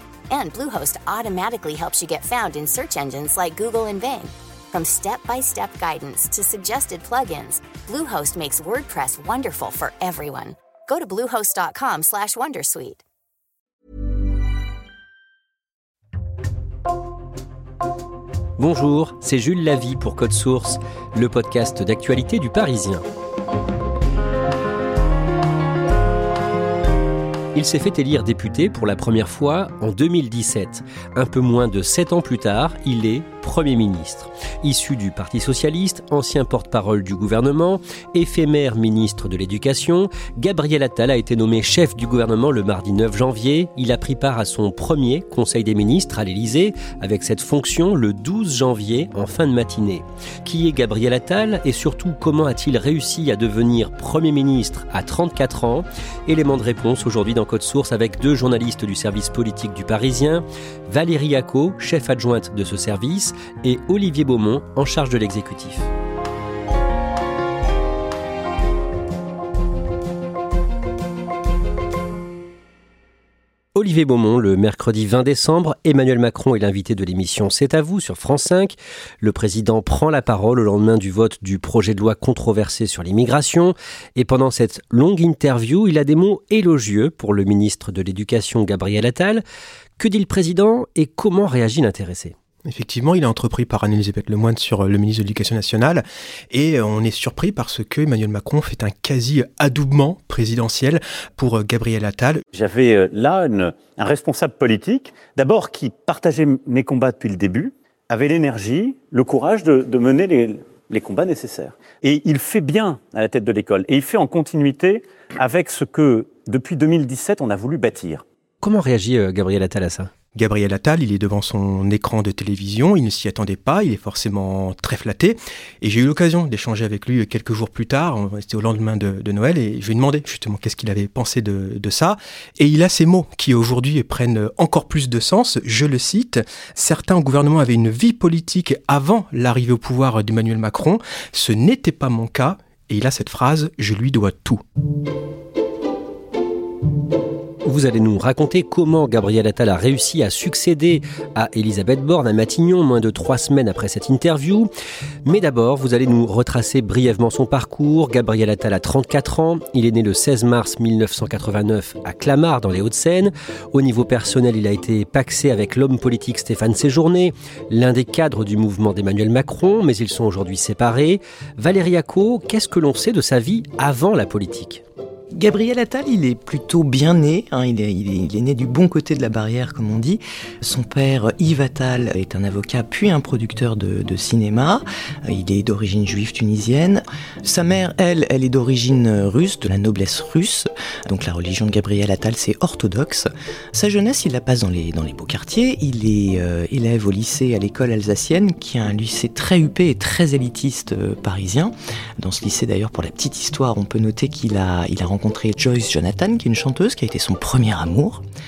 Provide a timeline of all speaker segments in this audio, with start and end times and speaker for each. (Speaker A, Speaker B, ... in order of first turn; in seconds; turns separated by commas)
Speaker A: 0.3-13.0, Speaker B: 18.6-23.0, Speaker B: 27.6-65.9, Speaker B: 73.8-89.4, Speaker B: 90.0-92.3, Speaker C: 92.7-102.5, Speaker D: 102.5-118.2, Speaker B: 118.6-120.1, Speaker C: 120.3-144.6, Speaker B: 147.7-154.7, Speaker B: 155.2-174.8, Speaker E: 175.3-208.2